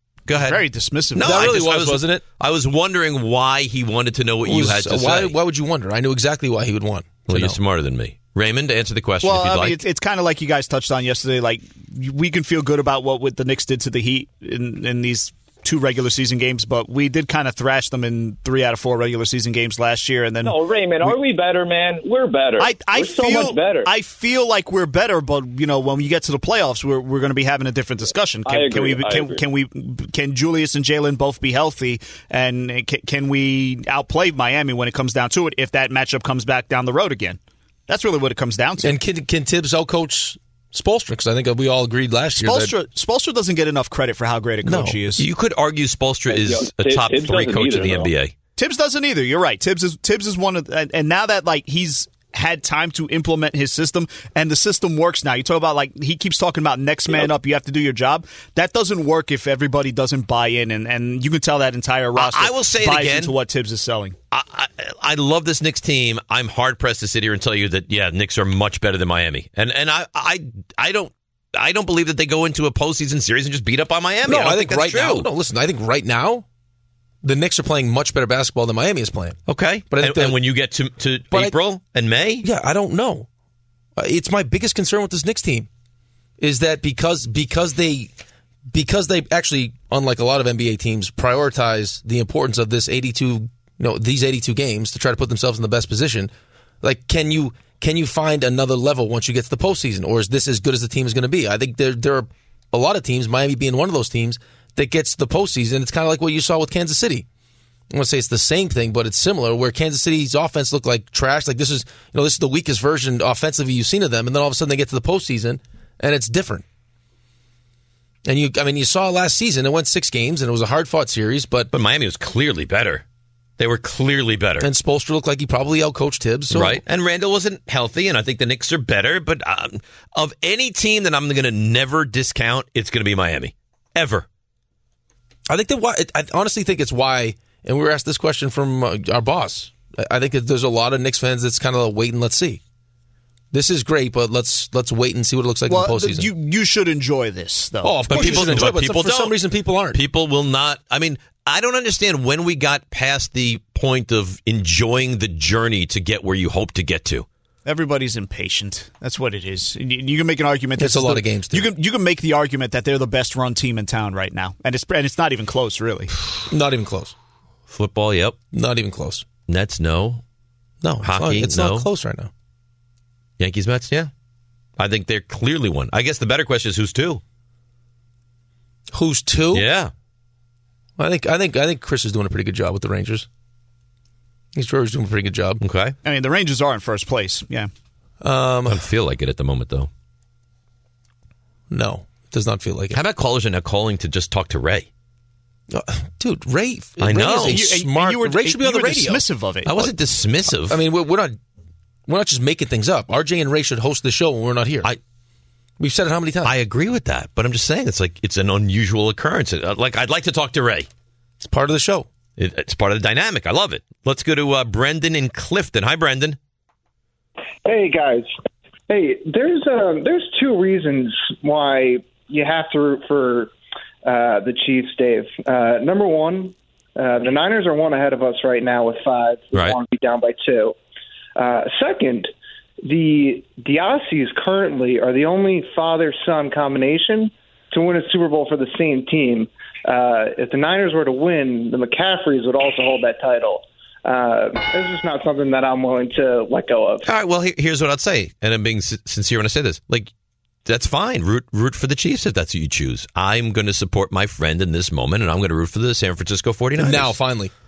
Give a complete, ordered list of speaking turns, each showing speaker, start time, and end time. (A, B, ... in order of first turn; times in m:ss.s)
0:00.3-0:00.6 A
0:00.3-0:01.6 B
0:01.1-0:05.4 A
0:01.2-0:02.2 C
0:04.4-0:07.6 C
0:07.3-0:09.8 A
0:09.2-0:21.2 B
0:20.4-0:23.9 D
0:22.6-0:39.0 B
0:28.4-0:29.4 D
0:38.8-0:42.7 C
0:42.4-0:45.3 B
0:44.6-0:45.0 C
0:45.2-0:48.3 A
0:46.3-0:48.1 D
0:48.6-1:04.2 B
1:02.2-1:03.3 A
1:04.3-1:15.3 A
1:14.2-1:16.4 C
1:17.2-1:19.4 C
1:19.5-1:22.4 A
1:19.9-1:20.4 C
1:22.4-1:23.3 C
1:24.0-1:25.7 C
1:26.4-1:28.1 C
1:28.7-1:47.3 C
1:47.9-1:56.6 C
1:58.2-2:01.7 C
2:01.7-2:03.0 A
2:03.6-2:04.7 A
2:04.6-2:06.8 C
2:06.5-2:14.3 A
2:15.5-2:22.6 C
2:23.5-2:26.3 C
2:25.7-2:28.8 B
2:27.8-2:30.0 C
2:28.1-2:29.4 A
2:29.9-2:37.3 A
2:37.6-2:46.1 B
2:40.8-2:41.7 C
2:46.5-2:47.2 C
2:47.7-2:48.4 A
2:48.5-2:49.2 C
2:49.5-2:50.2 A
2:50.8-2:52.3 C
2:51.0-2:51.9 A
2:53.4-2:54.1 A
2:54.8-2:57.2 A
2:58.9-2:59.7 C
2:59.5-2:59.9 A
3:01.0-3:03.3 C
3:04.6-3:05.6 C
3:05.6-3:06.0 A
3:06.0-3:07.7 B
3:08.2-3:08.8 C
3:08.7-3:09.9 A
3:11.7-3:13.0 C
3:12.9-3:14.9 A
3:15.7-3:19.2 C
3:17.0-3:17.6 A
3:17.3-3:19.9 B
3:19.7-3:20.8 A
3:20.6-3:21.4 C
3:22.1-3:24.9 C
3:25.8-3:26.5 C
3:26.4-3:30.9 A
3:31.4-3:32.1 C
3:32.4-3:36.4 A
3:37.6-3:38.3 E
3:38.9-3:43.5 E
3:44.0-3:50.8 E
3:51.4-3:52.3 E
3:52.8-4:07.1 E
4:07.0-4:10.1 A
4:10.7-4:17.1 A
4:16.8-4:17.5 C